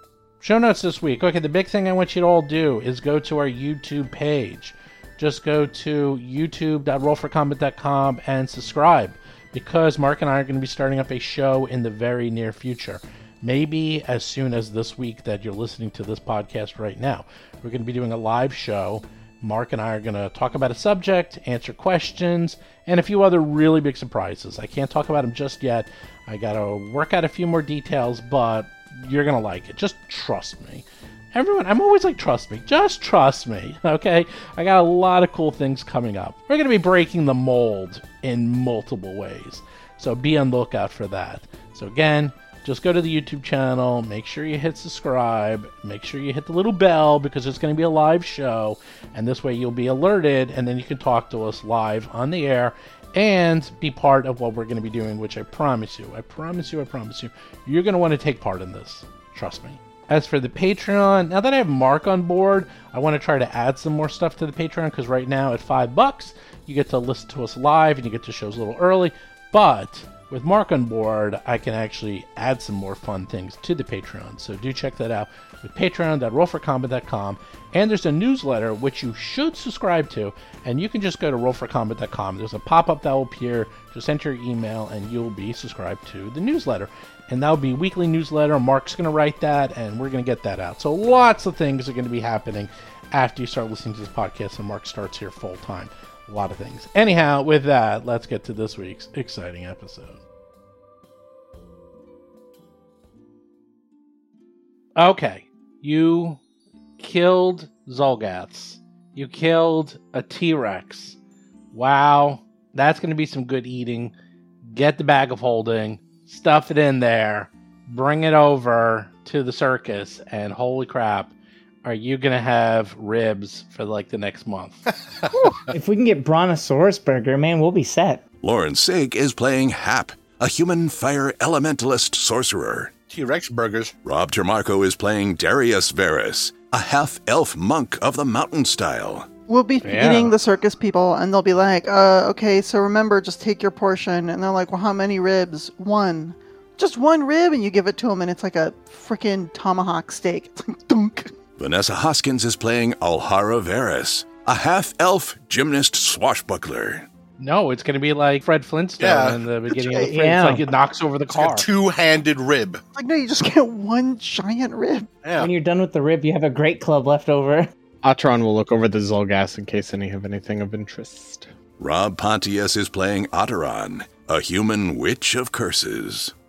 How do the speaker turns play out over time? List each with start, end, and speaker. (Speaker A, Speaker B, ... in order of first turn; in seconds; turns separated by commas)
Speaker A: 0.4-100.2, Speaker A: 105.0-106.4, Speaker A: 107.0-111.2, Speaker A: 111.7-114.1, Speaker A: 114.7-124.9, Speaker B: 125.7-128.2, Speaker C: 128.4-132.9, Speaker D: 133.1-133.9, Speaker C: 134.0-139.3, Speaker E: 139.5-151.3, Speaker A: 139.8-140.3, Speaker C: 151.6-157.1, Speaker A: 157.4-161.7, Speaker D: 159.0-160.1, Speaker B: 160.0-160.6, Speaker D: 161.3-162.8, Speaker E: 162.9-165.1, Speaker D: 165.2-165.5, Speaker B: 165.4-167.7, Speaker F: 168.0-171.5, Speaker C: 171.8-176.3